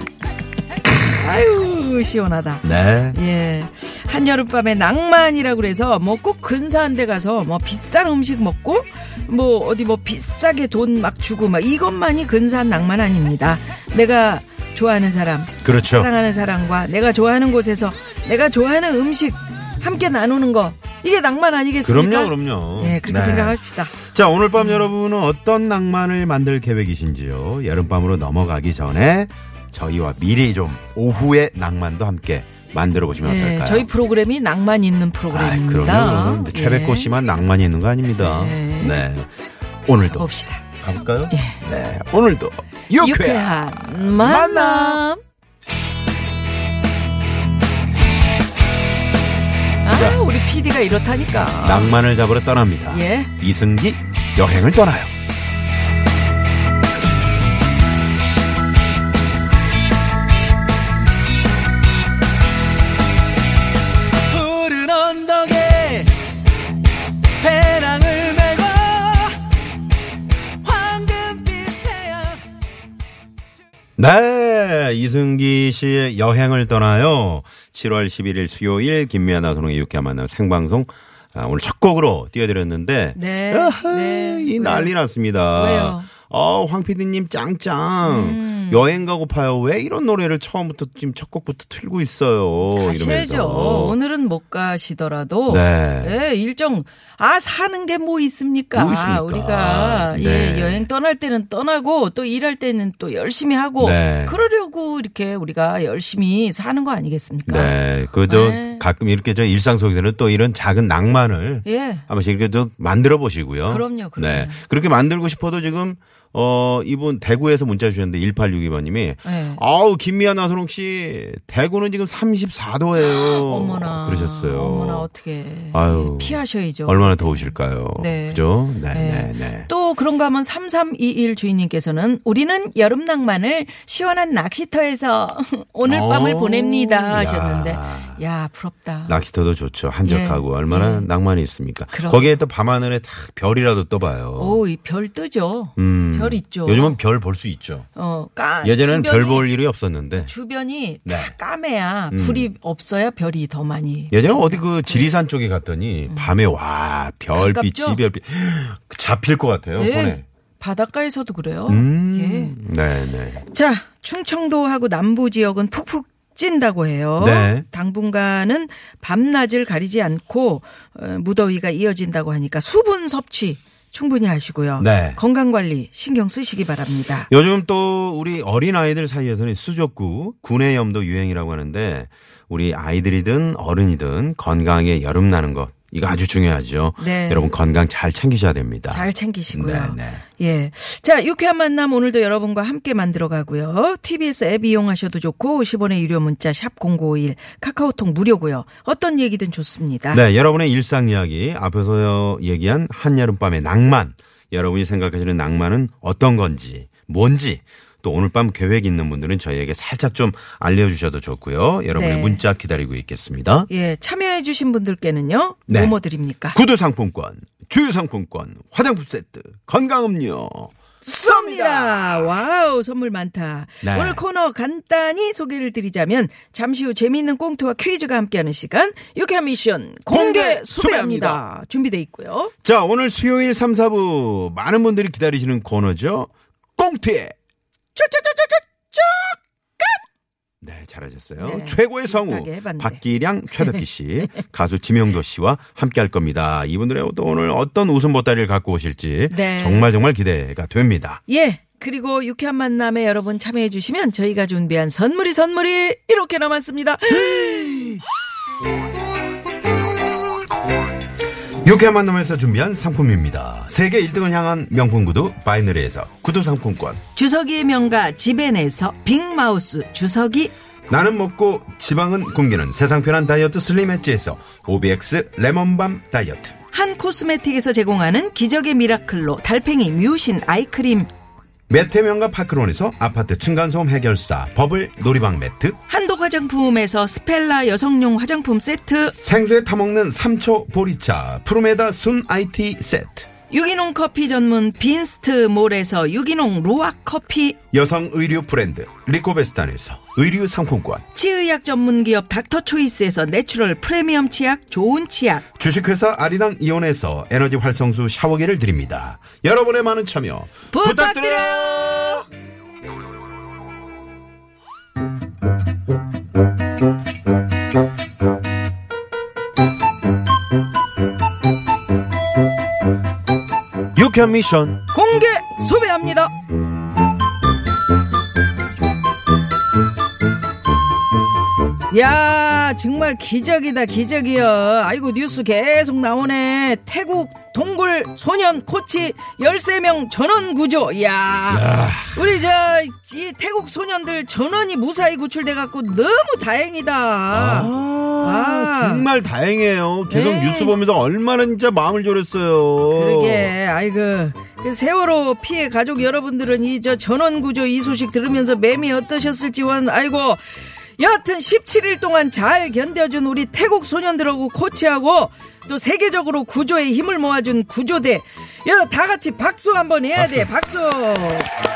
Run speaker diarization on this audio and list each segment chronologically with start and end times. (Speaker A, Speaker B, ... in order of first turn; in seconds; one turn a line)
Speaker A: 0.8-23.9
Speaker B: 2.6-3.2
Speaker B: 15.6-16.1
Speaker B: 21.8-33.9
Speaker A: 24.6-24.9
Speaker A: 33.2-37.1
Speaker B: 35.3-39.3
Speaker A: 38.2-39.0
Speaker B: 39.9-45.0
Speaker A: 40.1-40.6
Speaker A: 41.3-41.6
Speaker A: 43.0-45.2
Speaker A: 49.8-52.0
Speaker B: 49.9-50.2
Speaker B: 51.6-55.1
Speaker A: 52.9-53.3
Speaker C: 64.3-66.1
Speaker C: 67.4-69.4
Speaker C: 70.6-72.4
Speaker B: 74.0-94.0
Speaker A: 83.2-84.9
Speaker A: 85.5-86.1
Speaker A: 88.0-88.9
Speaker A: 92.6-108.8
Speaker B: 95.5-96.2
Speaker B: 98.7-100.9
Speaker B: 103.8-104.4
Speaker B: 107.5-125.1
Speaker A: 111.7-112.0
Speaker A: 113.7-114.6
Speaker A: 119.2-119.6
Speaker A: 123.1-139.2
Speaker B: 125.7-129.7
Speaker B: 135.8-138.2
Speaker B: 139.1-144.6
Speaker A: 140.0-141.1
Speaker A: 141.9-142.4
Speaker A: 144.4-147.0
Speaker B: 145.8-147.9
Speaker A: 148.0-149.5
Speaker B: 148.6-150.3
Speaker A: 150.2-155.1
Speaker B: 151.1-151.3
Speaker B: 152.1-152.5
Speaker B: 154.1-160.2
Speaker A: 156.1-156.4
Speaker A: 157.3-158.0
Speaker A: 159.8-162.5
Speaker B: 161.7-163.5
Speaker A: 163.5-177.3
Speaker B: 167.2-167.7
Speaker B: 174.8-175.2
Speaker B: 177.3-190.2
Speaker A: 187.0-187.6
Speaker A: 188.9-200.2
Speaker B: 200.1-213.7
Speaker A: 211.9-212.4
Speaker A: 213.7-216.6
Speaker B: 215.7-216.0
Speaker B: 216.5-222.4
Speaker A: 221.1-232.5
Speaker B: 223.8-224.2
Speaker B: 230.1-231.4
Speaker B: 232.6-237.3
Speaker A: 238.0-240.0
Speaker B: 240.6-251.2
Speaker A: 241.4-243.0
Speaker A: 249.3-249.9
Speaker A: 251.3-257.8
Speaker B: 257.6-257.9
Speaker B: 261.6-267.0
Speaker A: 267.1-270.5
Speaker B: 270.9-276.6
Speaker A: 276.7-281.1
Speaker B: 281.7-285.8
Speaker A: 285.9-289.2
Speaker B: 289.2-293.3
Speaker A: 293.5-297.6
Speaker B: 297.7-301.0
Speaker A: 301.1-305.4
Speaker B: 305.6-312.2
Speaker A: 310.7-312.0
Speaker B: 323.9-324.8
Speaker A: 324.9-326.3
Speaker A: 331.9-349.1
Speaker B: 341.5-342.4
Speaker B: 347.3-353.5
Speaker A: 350.1-350.8
Speaker A: 352.9-371.5
Speaker B: 370.2-370.5